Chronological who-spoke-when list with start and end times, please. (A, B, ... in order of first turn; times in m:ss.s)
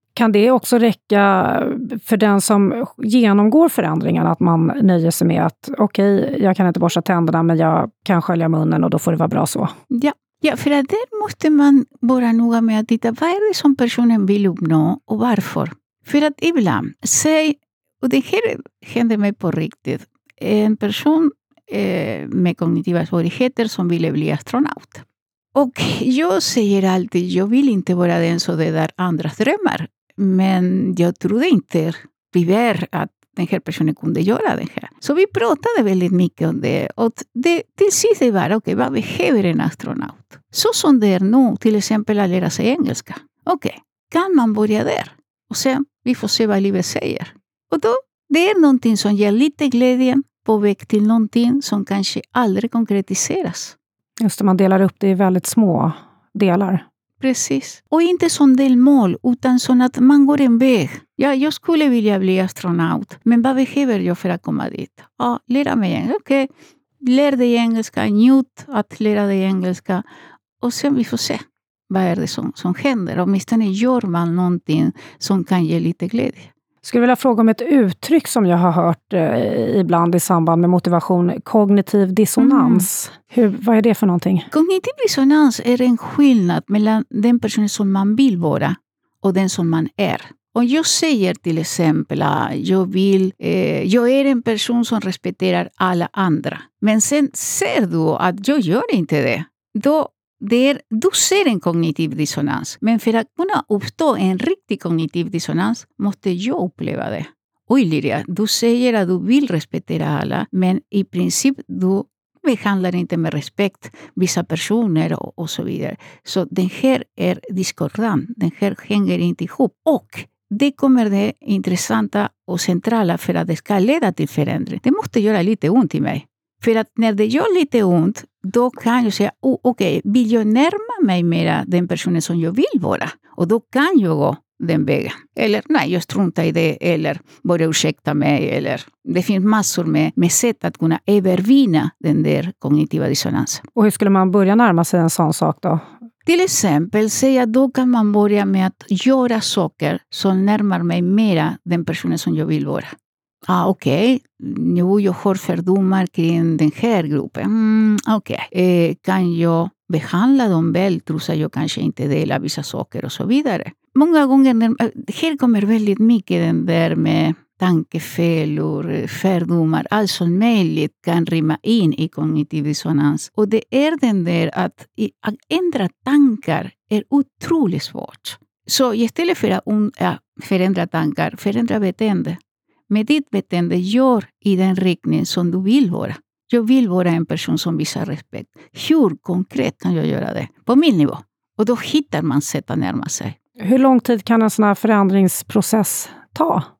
0:00.2-0:09.7 A
0:09.9-0:25.0 B
0:25.5-0:53.8 B
0:54.2-0:56.8 A
0:57.2-1:06.5 B
1:07.0-1:10.0 B
1:10.6-1:16.5 B
1:16.8-1:24.5 A
1:22.4-1:22.9 B
1:24.5-2:23.6 B
2:23.7-2:25.8 A
2:26.2-2:32.9 B
2:33.5-3:13.4 B
3:13.6-3:16.7 A